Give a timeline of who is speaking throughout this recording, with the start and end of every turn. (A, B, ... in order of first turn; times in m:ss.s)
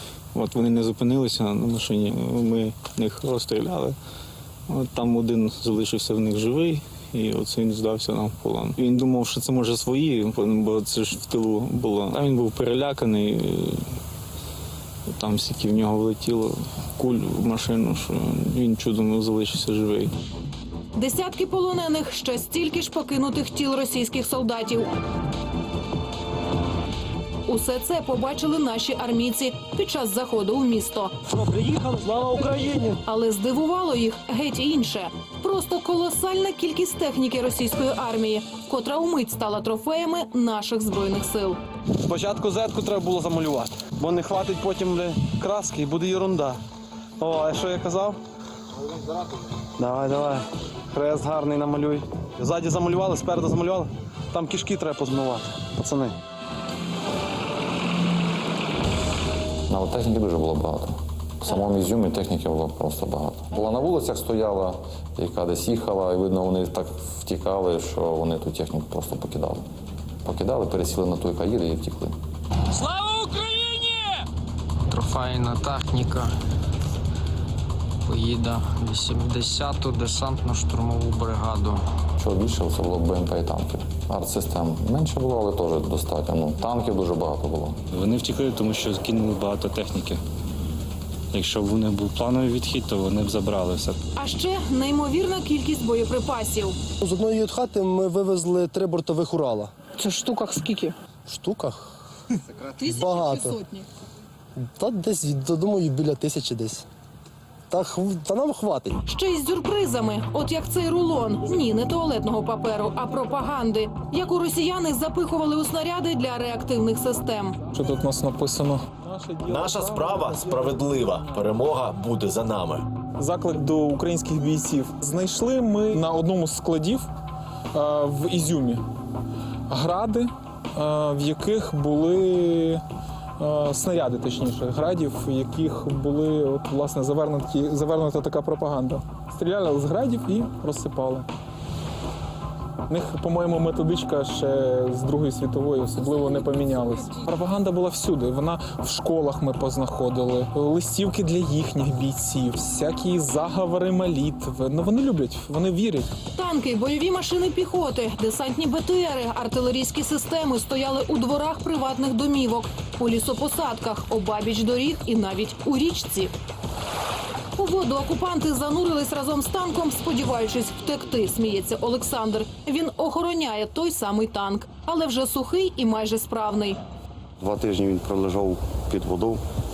0:00.3-0:04.0 A
0:04.7-0:13.8 A
0:15.2-0:20.1 A
0:21.0-0:24.9 B
0:27.5-0:31.2 B
0:31.5-0:32.9 C
0:33.0-0:41.6 B
0:42.1-0:46.6 C
0:47.2-0:48.2 C
0:49.8-0:56.2 C
0:59.7-1:09.7 D
1:10.2-1:12.2 D
1:13.1-1:13.8 E
1:14.9-1:16.3 E
1:18.1-1:21.8 E
1:22.2-1:27.8 D
1:27.9-1:30.2 F
1:31.3-1:34.0 F
1:34.2-1:36.8 B
1:37.0-1:39.7 G
1:40.0-1:40.9 B
1:41.3-1:41.9 G
1:42.8-1:43.6 G
1:42.9-1:43.6 B
1:44.8-1:46.8 G
1:47.7-1:49.0 G
1:49.1-1:57.6 B
1:57.7-2:00.3 H
1:59.4-2:02.8 I
2:03.2-2:07.1 H
2:07.7-2:08.8 H
2:09.7-2:12.8 H
2:13.4-2:21.3 H
2:22.9-2:36.1 H
2:36.3-2:46.3 B
2:47.6-2:56.8 B
2:57.4-2:59.4 J